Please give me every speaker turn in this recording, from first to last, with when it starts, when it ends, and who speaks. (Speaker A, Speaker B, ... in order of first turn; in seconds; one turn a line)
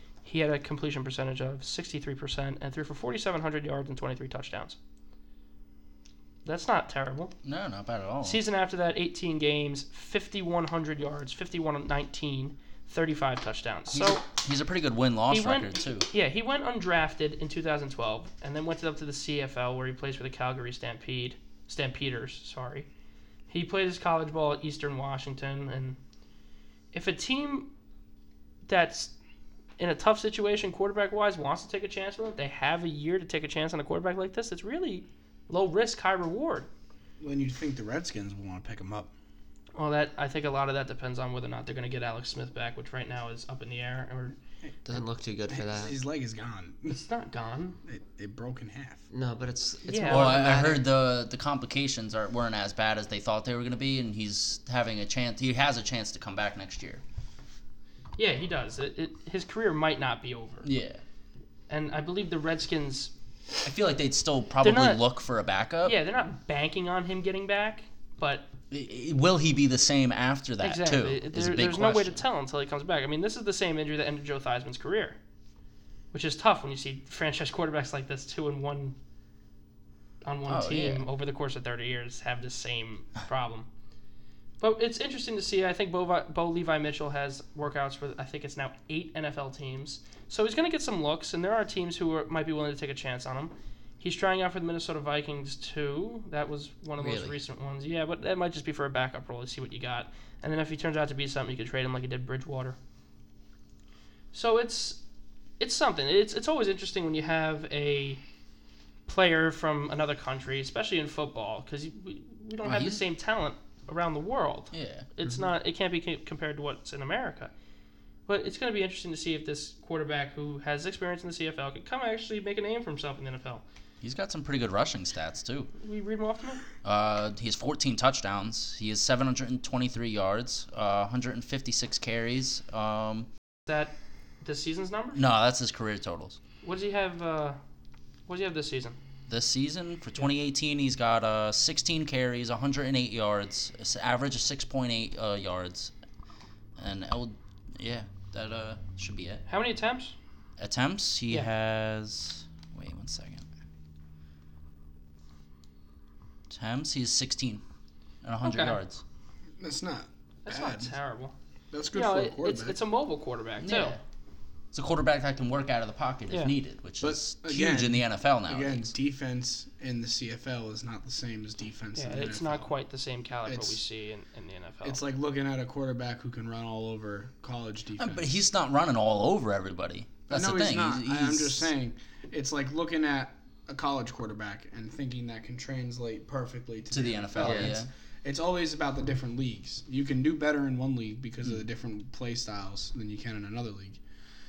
Speaker A: 0.2-4.8
Speaker A: 6.4-7.3
Speaker B: 7.4-8.4
Speaker A: 8.2-14.2
Speaker B: 13.9-16.1
Speaker A: 15.3-22.9
Speaker A: 23.5-26.0
Speaker A: 26.9-27.7
Speaker A: 28.7-29.1
Speaker A: 29.8-36.7
Speaker C: 37.2-39.1
Speaker A: 39.8-44.4
Speaker C: 44.6-47.0
Speaker D: 44.9-45.9
Speaker A: 46.9-47.8
Speaker C: 47.9-49.0
Speaker D: 49.1-50.8
Speaker A: 49.9-50.3
Speaker B: 50.0-57.0
Speaker A: 58.2-60.7
Speaker B: 60.6-61.0
Speaker A: 61.7-63.1
Speaker B: 63.6-66.0
Speaker A: 64.6-65.0
Speaker A: 65.8-68.5
Speaker B: 68.7-72.2
Speaker A: 70.6-75.2
Speaker A: 76.1-79.0
Speaker A: 80.2-83.7
Speaker B: 80.5-81.0
Speaker A: 84.6-102.8
Speaker B: 97.0-97.3
Speaker A: 104.3-105.0
Speaker A: 105.6-108.2
Speaker A: 109.1-117.5
Speaker B: 112.6-113.0
Speaker B: 114.7-115.1
Speaker A: 118.3-123.6
Speaker B: 124.0-125.7
Speaker A: 125.8-126.6
Speaker B: 126.8-133.3
Speaker A: 133.7-135.2
Speaker B: 135.1-136.4
Speaker A: 136.6-137.6
Speaker A: 138.3-138.9
Speaker B: 139.3-145.9
Speaker B: 146.8-149.4
Speaker A: 149.5-150.1
Speaker B: 150.6-153.4
Speaker B: 156.5-157.6
Speaker B: 158.2-159.0
Speaker A: 158.4-158.8
Speaker C: 159.6-160.9
Speaker A: 160.4-161.3
Speaker C: 161.7-162.8
Speaker A: 161.9-163.9
Speaker B: 163.6-164.0
Speaker B: 164.7-168.9
Speaker C: 167.0-172.7
Speaker A: 171.9-175.0
Speaker C: 173.4-173.8
Speaker C: 174.8-178.3
Speaker B: 178.0-181.7
Speaker C: 180.3-194.0
Speaker B: 186.9-187.9